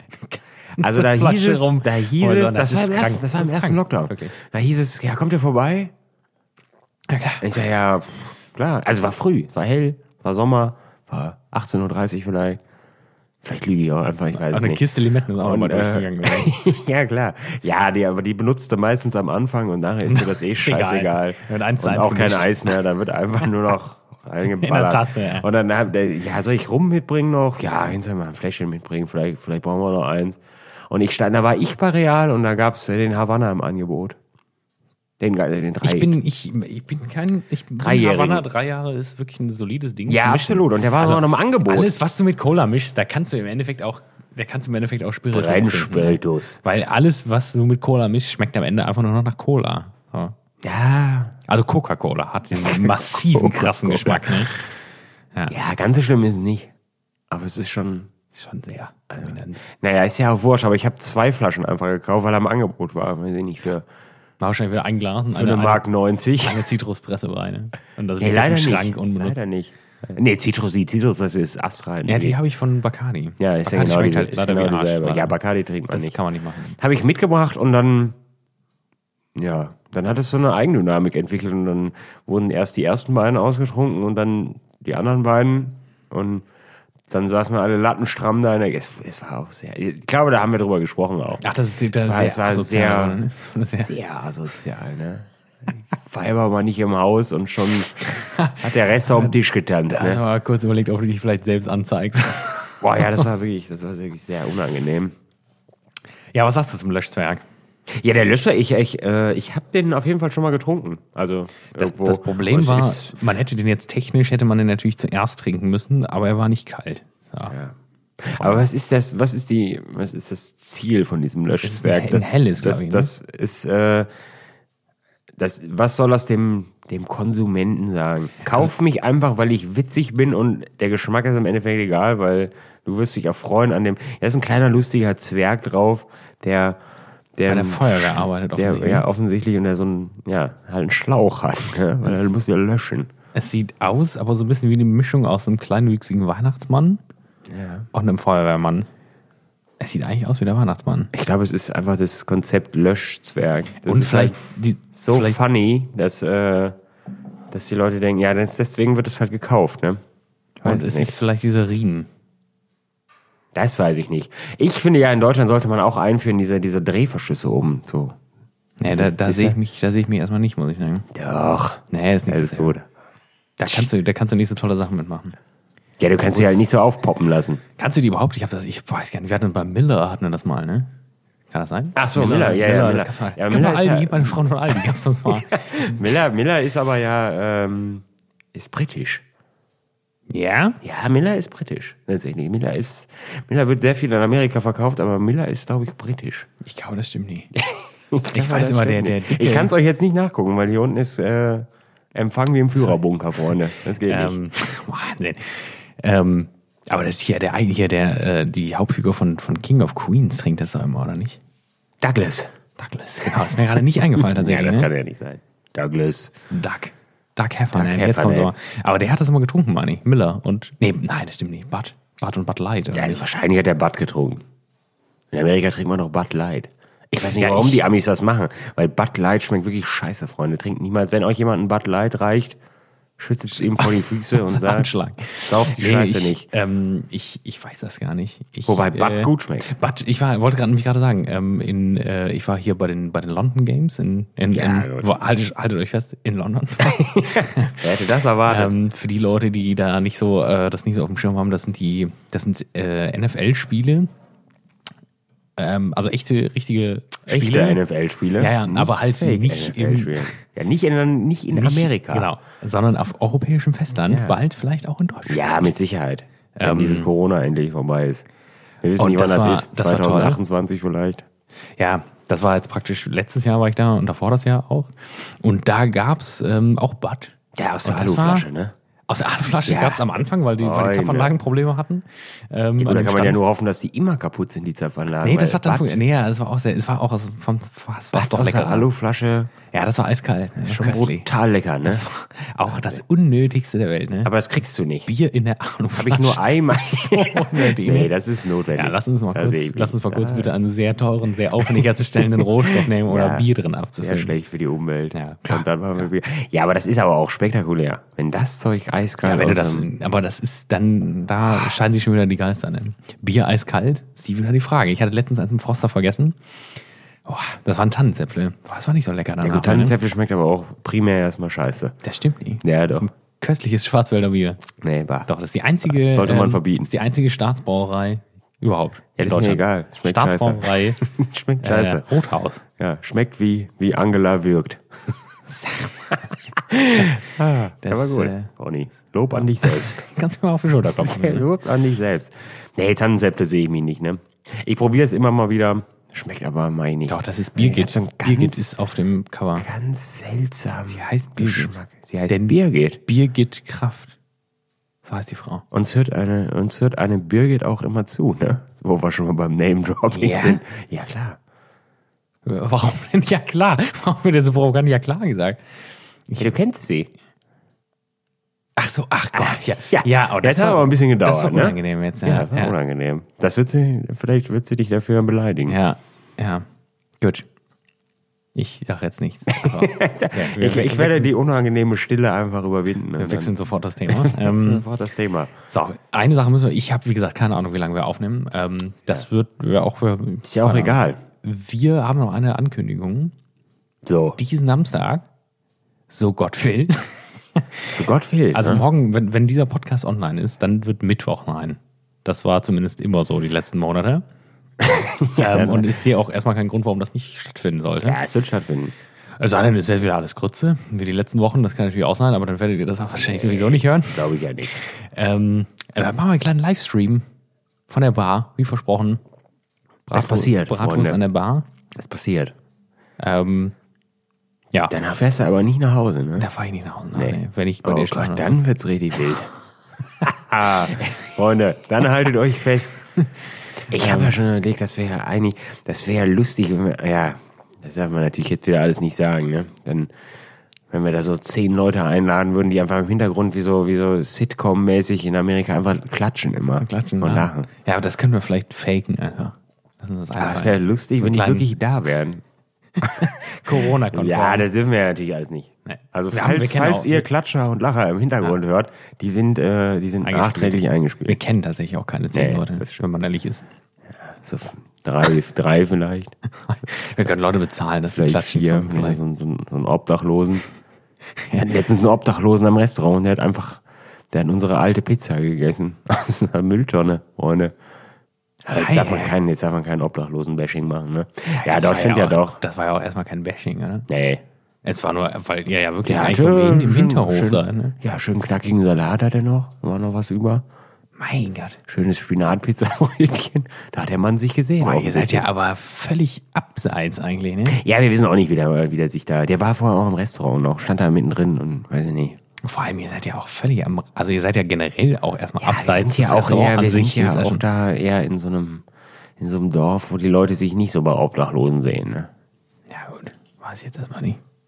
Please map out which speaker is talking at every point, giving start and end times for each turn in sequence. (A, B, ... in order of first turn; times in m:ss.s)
0:00.3-0:04.3 A
0:00.8-0:05.9 B
0:07.1-0:07.4 A
0:07.4-0:12.6 B
0:13.4-0:34.2 B
0:14.3-0:16.6 A
0:20.0-0:22.8 A
0:24.4-0:25.4 A
0:35.2-0:36.2 B
0:35.8-0:50.3 A
0:37.8-0:38.4 B
0:40.1-0:41.9 B
0:45.3-0:46.6 B
0:50.6-0:51.3 B
0:51.5-0:54.6 A
0:52.6-0:54.5 B
0:55.5-0:56.7 B
0:57.3-0:58.1 B
0:58.3-0:59.6 A
0:59.1-1:03.8 B
1:04.4-1:05.8 A
1:05.3-1:06.7 B
1:06.4-1:09.4 A
1:08.2-1:12.4 B
1:12.0-1:16.8 A
1:13.4-1:16.2 B
1:16.8-1:18.2 B
1:19.3-1:26.4 B
1:27.1-1:37.9 B
1:31.4-1:33.9 A
1:38.1-1:39.3 A
1:38.6-1:40.2 B
1:39.9-1:43.2 A
1:42.8-1:45.1 B
1:46.3-1:47.4 A
1:47.9-1:53.1 B
1:51.7-1:57.5 A
1:57.5-2:04.1 B
1:58.4-1:58.6 A
2:01.6-2:03.1 A
2:05.4-2:16.8 B
2:08.4-2:08.7 A
2:17.3-2:23.1 B
2:17.5-2:19.0 A
2:23.3-2:27.0 A
2:27.5-2:27.9 B
2:27.9-2:28.9 A
2:29.8-2:31.1 A
2:31.1-2:34.4 B
2:33.8-2:35.4 A
2:34.9-2:36.8 B
2:37.5-2:40.0 B
2:40.6-2:42.1 A
2:40.6-2:41.1 B
2:43.5-2:48.2 B
2:48.8-2:51.1 A
2:48.9-2:49.6 B
2:51.1-2:52.8 B
2:51.9-2:52.8 A
2:53.6-2:55.4 A
2:56.0-2:57.6 B
2:56.2-2:56.7 A
2:57.8-3:00.9 A
3:01.5-3:06.0 A
3:01.9-3:09.2 B
3:10.3-3:10.8 A
3:10.8-3:16.5 B
3:16.6-3:17.5 A
3:17.5-3:24.4 B
3:18.3-3:19.7 A
3:24.0-3:31.4 A
3:32.0-3:32.5 B
3:32.8-3:34.9 A
3:34.2-3:36.3 B
3:36.5-3:43.2 A
3:37.7-3:38.5 B
3:42.9-3:44.4 B
3:45.3-3:52.6 B
3:47.3-3:47.8 A
3:53.2-3:54.9 B
3:53.8-4:07.8 A
3:55.4-3:56.5 B
3:58.7-3:59.7 B
4:04.5-4:05.2 B
4:06.8-4:08.8 B
4:08.4-4:14.1 A
4:15.6-4:17.8 A
4:17.3-4:22.3 B
4:18.4-4:20.4 A
4:21.5-4:25.7 A
4:24.1-4:24.4 B
4:25.3-4:28.2 B
4:26.6-4:27.1 A
4:28.8-4:31.2 B
4:29.0-4:30.4 A
4:31.8-4:38.5 A
4:37.5-4:38.7 B
4:39.1-4:43.4 A
4:39.7-4:40.0 B
4:40.6-4:41.3 B
4:42.8-4:46.0 B
4:45.2-4:48.9 A
4:48.1-4:49.5 B
4:49.7-4:51.3 A
4:50.6-4:52.0 B
4:51.8-4:54.3 A
4:52.7-4:53.0 B
4:54.2-4:55.1 B
4:55.0-4:58.1 A
4:55.9-5:00.5 B
4:58.7-5:04.3 A
5:01.6-5:03.5 B
5:04.0-5:09.9 B
5:05.1-5:05.6 A
5:09.2-5:16.4 A
5:17.3-5:20.0 A
5:19.4-5:22.0 B
5:22.0-5:24.7 A
5:22.6-5:23.1 B
5:24.8-5:25.3 B
5:25.2-5:31.0 A
5:25.8-5:26.9 B
5:29.2-5:32.1 B
5:31.6-5:32.6 A
5:32.8-5:34.8 B
5:35.5-5:36.2 A
5:36.5-5:40.1 B
5:37.8-5:38.5 A
5:39.4-5:41.5 A
5:40.9-5:48.7 B
5:47.1-5:49.7 A
5:49.6-5:53.0 B
5:50.9-5:51.8 A
5:52.3-5:54.2 A
5:55.0-5:55.6 A
5:55.7-6:01.4 B
6:00.1-6:00.6 A
6:02.4-6:05.6 A
6:06.4-6:07.1 B
6:08.8-6:12.7 A
6:09.3-6:15.8 B
6:15.7-6:16.6 A
6:17.2-6:17.5 A
6:18.5-6:21.3 A
6:19.5-6:23.5 B
6:23.2-6:24.8 A
6:24.1-6:25.5 B
6:25.7-6:33.3 A
6:30.4-6:31.2 B
6:34.0-6:34.4 B
6:34.4-6:35.2 A
6:36.1-6:38.0 A
6:37.9-6:38.8 B
6:38.5-6:44.2 A
6:44.8-6:45.9 B
6:45.3-6:48.2 A
6:48.0-6:48.9 B
6:49.4-6:57.2 A
6:53.2-6:54.8 B
6:57.9-6:59.2 A
7:00.1-7:01.7 A
7:00.1-7:01.2 B
7:01.9-7:02.5 B
7:03.2-7:03.7 A
7:04.9-7:06.5 B
7:06.4-7:08.6 A
7:07.1-7:09.5 B
7:10.2-7:13.0 B
7:13.8-7:20.1 B
7:13.9-7:14.3 A
7:20.9-7:27.7 B
7:26.8-7:31.7 A
7:30.4-7:32.4 B
7:33.0-7:34.7 A
7:33.7-7:41.4 B
7:35.8-7:37.3 A
7:40.2-7:43.7 A
7:42.3-7:43.0 B
7:44.2-7:46.3 B
7:46.7-7:49.2 A
7:48.1-7:50.6 B
7:51.4-7:51.7 A
7:51.6-7:57.7 B
7:58.6-8:02.6 B
7:58.7-7:59.3 A
8:01.6-8:04.1 A
8:04.1-8:04.4 B
8:04.8-8:08.0 A
8:06.0-8:10.6 B
8:11.2-8:11.8 A
8:11.9-8:15.5 B
8:14.8-8:17.8 A
8:17.7-8:22.4 B
8:22.6-8:27.6 A
8:25.6-8:28.8 B
8:29.4-8:32.3 B
8:32.9-8:34.4 A